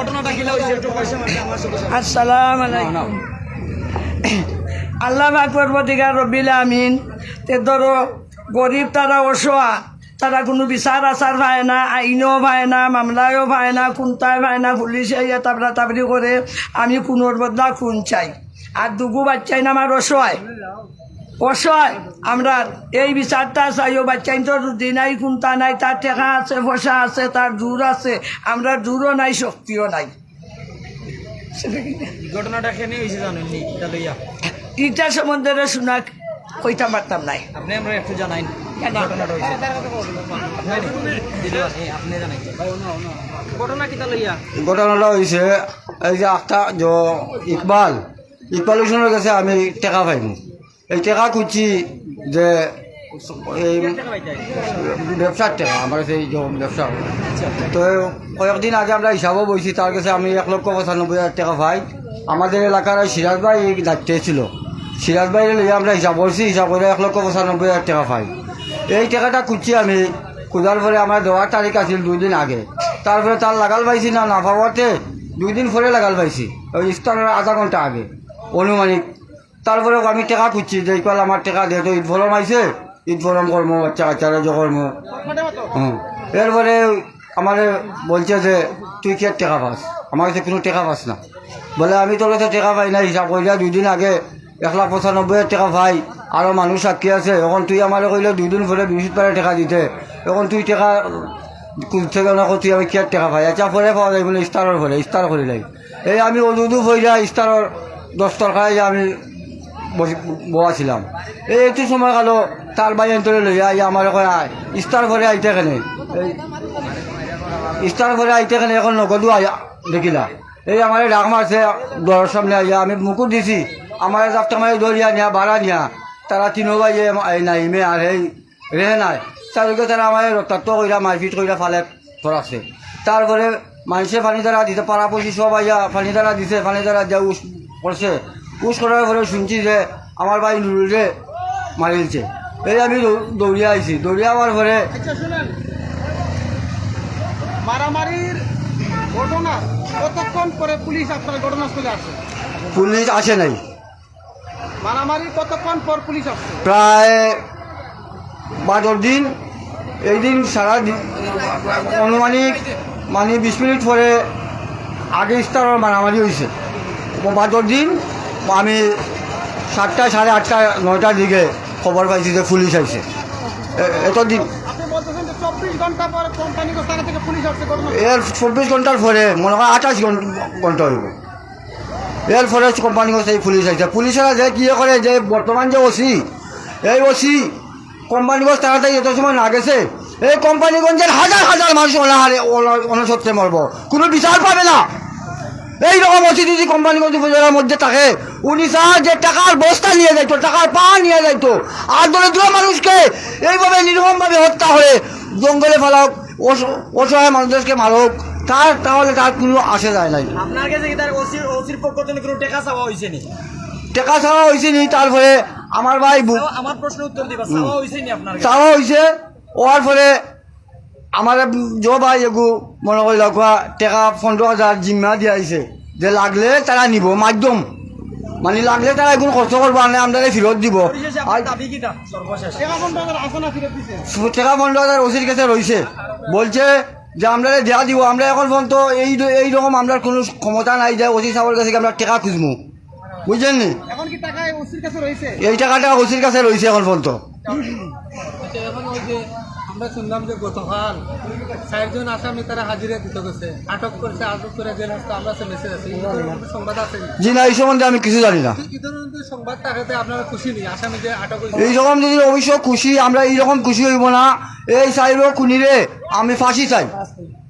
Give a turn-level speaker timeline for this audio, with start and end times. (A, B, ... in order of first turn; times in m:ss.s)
0:01.8-0:03.1 A
0:05.0-0:20.4 A
0:21.4-0:30.1 A
0:31.6-0:32.1 A
0:32.8-0:33.9 B
0:34.8-0:36.1 A
0:36.6-0:37.5 A
0:37.9-0:38.2 B
0:38.8-0:39.3 A
0:44.6-0:50.4 C
0:50.9-0:57.0 C
0:57.6-1:08.3 C
1:08.9-1:19.0 C
1:19.6-1:24.9 C
1:25.7-1:31.2 C
1:31.8-1:41.3 C
1:41.8-1:49.2 C
1:49.9-1:56.4 C
1:57.8-2:21.1 C
2:21.8-2:24.8 C
2:27.7-2:28.4 D
2:29.2-2:32.2 D
2:32.7-2:33.6 C
2:34.8-2:36.5 D
2:36.6-2:37.4 C
2:38.6-2:39.3 C
2:40.0-2:44.2 C
2:45.1-2:46.5 C
2:47.2-2:48.9 C
2:49.7-2:53.0 C
2:53.8-2:54.5 C
2:54.7-2:57.8 D
2:57.9-3:01.1 C
3:02.3-3:06.2 C
3:06.8-3:07.5 C
3:08.1-3:14.8 C
3:15.8-3:30.3 C
3:30.4-3:33.2 B
3:33.9-3:36.4 C
3:36.4-3:38.6 B
3:37.5-3:37.8 C
3:38.4-3:39.0 C
3:39.6-3:40.2 C
3:41.2-3:47.6 C
3:48.4-3:51.5 C
3:51.6-3:52.0 B
3:53.1-3:54.0 D
3:54.1-4:02.6 C
4:03.2-4:03.8 C
4:04.0-4:05.3 D
4:05.4-4:07.2 C
4:08.5-4:11.0 E
4:11.7-4:17.1 E
4:17.2-4:18.6 C
4:18.6-4:21.5 E
4:21.5-4:26.9 C